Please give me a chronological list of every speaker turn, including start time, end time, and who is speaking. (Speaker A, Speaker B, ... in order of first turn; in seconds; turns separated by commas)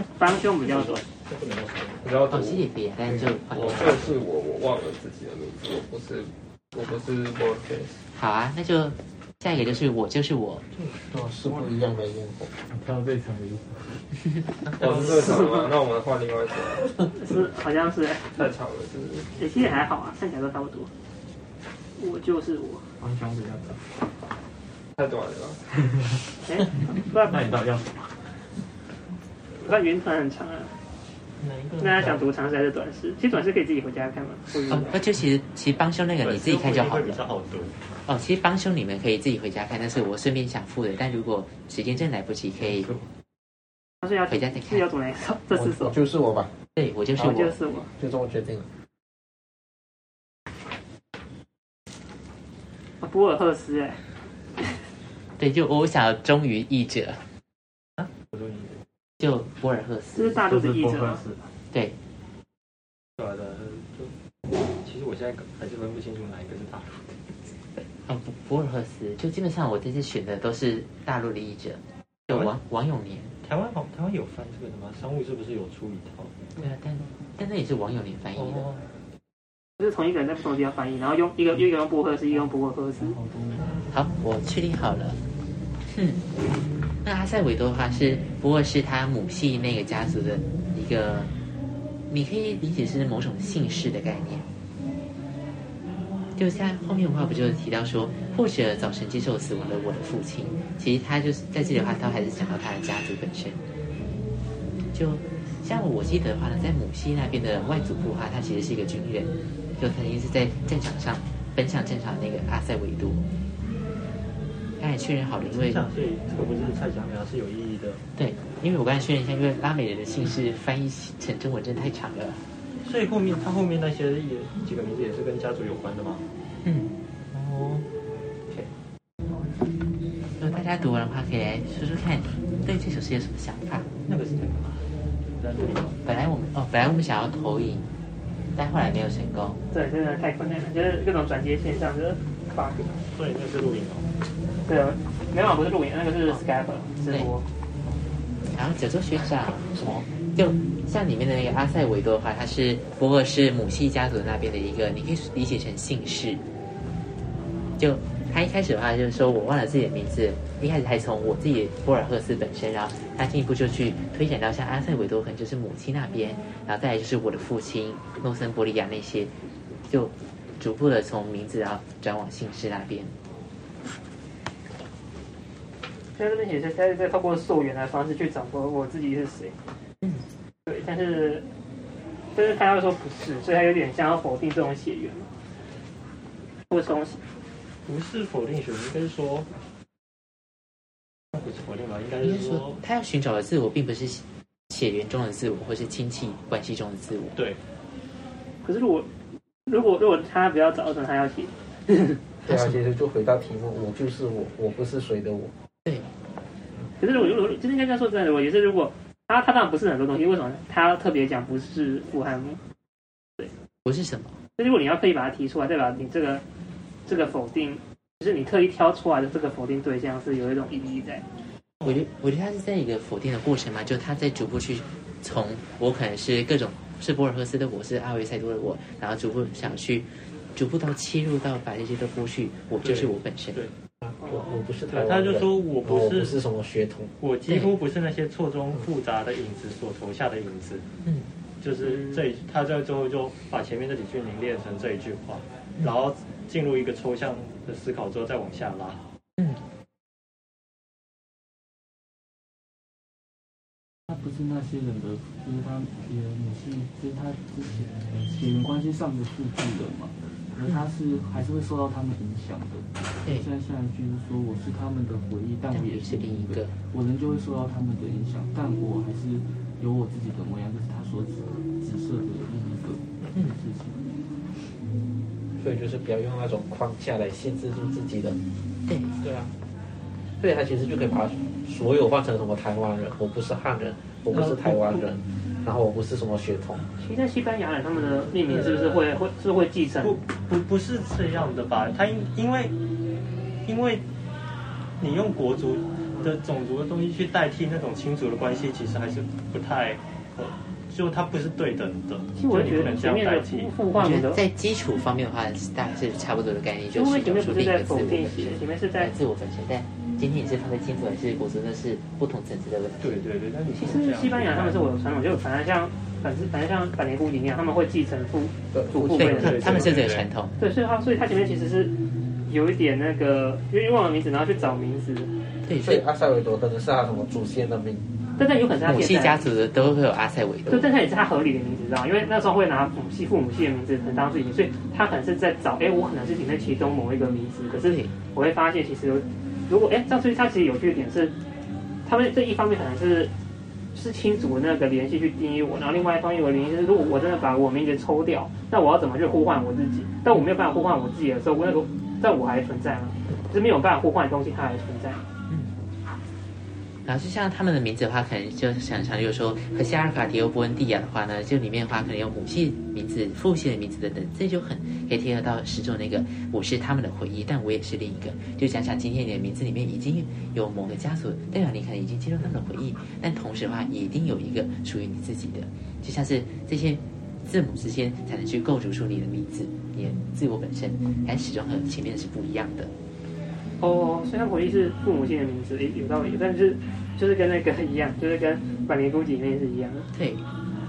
Speaker A: 0.2-1.1, Speaker B: 0.4-2.1, Speaker C: 2.0-2.7, Speaker D: 2.3-4.0, Speaker C: 3.5-8.0, Speaker D: 8.1-10.7, Speaker B: 10.7-11.1, Speaker E: 11.1-12.5, Speaker F: 12.7-14.0, Speaker B: 14.7-15.5, Speaker C: 14.8-17.0, Speaker A: 17.2-18.4, Speaker C: 18.3-19.3, Speaker A: 19.4-20.9, Speaker A: 22.0-22.9, Speaker F: 23.0-23.8, Speaker C: 25.0-25.6, Speaker A: 26.4-27.6, Speaker F: 27.3-27.9, Speaker A: 29.6-30.7, Speaker B: 31.4-32.3, Speaker A: 31.8-35.0, Speaker D: 34.7-37.2, Speaker B: 36.2-37.7, Speaker D: 38.1-42.9, Speaker A: 44.0-46.0, Speaker D: 44.3-44.9, Speaker E: 45.5-46.5, Speaker D: 46.8-47.7, Speaker A: 47.2-47.9, Speaker E: 48.0-48.7, Speaker A: 53.0-54.0, Speaker D: 55.4-57.2, Speaker B: 58.0-58.8, Speaker D: 59.2-60.4, Speaker A: 60.1-61.2, Speaker F: 60.5-61.3, Speaker D: 61.7-62.0, Speaker B: 63.2-64.1, Speaker B: 64.8-67.2, Speaker D: 68.1-73.3, Speaker B: 73.4-76.4, Speaker D: 76.6-78.7, Speaker B: 78.4-78.8, Speaker A: 79.8-83.2, Speaker F: 83.0-83.9, Speaker D: 83.9-85.2, Speaker D: 85.9-86.2, Speaker D: 87.0-91.3, Speaker D: 92.1-94.5, Speaker D: 96.4-103.6, Speaker D: 104.9-113.3, Speaker D: 114.8-115.9, Speaker B: 115.4-118.0, Speaker D: 118.2-122.4, Speaker B: 122.8-126.2, Speaker D: 126.7-126.9, Speaker B: 127.3-127.9, Speaker D: 130.4-133.9, Speaker B: 134.1-136.0, Speaker D: 136.1-137.9, Speaker D: 138.6-139.6, Speaker A: 139.7-142.8, Speaker B: 143.1-144.1, Speaker A: 144.7-147.4, Speaker D: 148.5-156.4, Speaker D: 157.8-169.3, Speaker D: 169.9-173.1, Speaker A: 176.2-179.6, Speaker A: 180.7-181.4, Speaker A: 182.3-185.3, Speaker A: 186.7-187.2, Speaker B: 187.9-189.5, Speaker B: 191.3-192.8, Speaker D: 192.2-197.4, Speaker A: 198.6-199.1, Speaker A: 199.7-202.2, Speaker D: 202.5-202.8, Speaker E: 202.5-205.5, Speaker A: 207.0-212.6, Speaker D: 213.8-214.4, Speaker A: 214.6-216.4, Speaker A: 217.1-221.2, Speaker D: 221.8-233.6, Speaker B: 232.8-233.7, Speaker E: 234.0-237.1, Speaker B: 234.9-236.3, Speaker B: 237.2-240.8, Speaker D: 237.5-237.8, Speaker B: 241.6-249.0, Speaker F: 254.1-274.1, Speaker D: 263.2-263.5, Speaker D: 265.7-266.8, Speaker D: 273.3-273.6, Speaker E: 275.6-278.4, Speaker D: 278.9-279.2, Speaker E: 279.2-279.5, Speaker E: 280.4-286.9, Speaker B: 284.3-285.1, Speaker A: 287.0-290.2, Speaker B: 288.5-289.1, Speaker B: 290.0-292.7, Speaker B: 293.6-294.0, Speaker B: 295.0-303.8, Speaker A: 302.4-304.4, Speaker D: 303.9-313.2, Speaker A: 306.9-309.1, Speaker B: 313.0-314.9, Speaker A: 313.7-319.9, Speaker E: 318.7-319.6, Speaker D: 319.1-320.6, Speaker B: 319.2-320.3, Speaker A: 320.6-322.0, Speaker A: 322.5-325.3, Speaker D: 325.6-326.0, Speaker E: 325.8-328.1, Speaker A: 328.4-329.4, Speaker D: 328.9-330.9, Speaker A: 330.7-341.3, Speaker D: 337.7-338.1, Speaker A: 342.1-343.3, Speaker A: 343.9-355.2, Speaker D: 357.1-382.9, Speaker A: 383.8-390.1, Speaker D: 390.1-390.4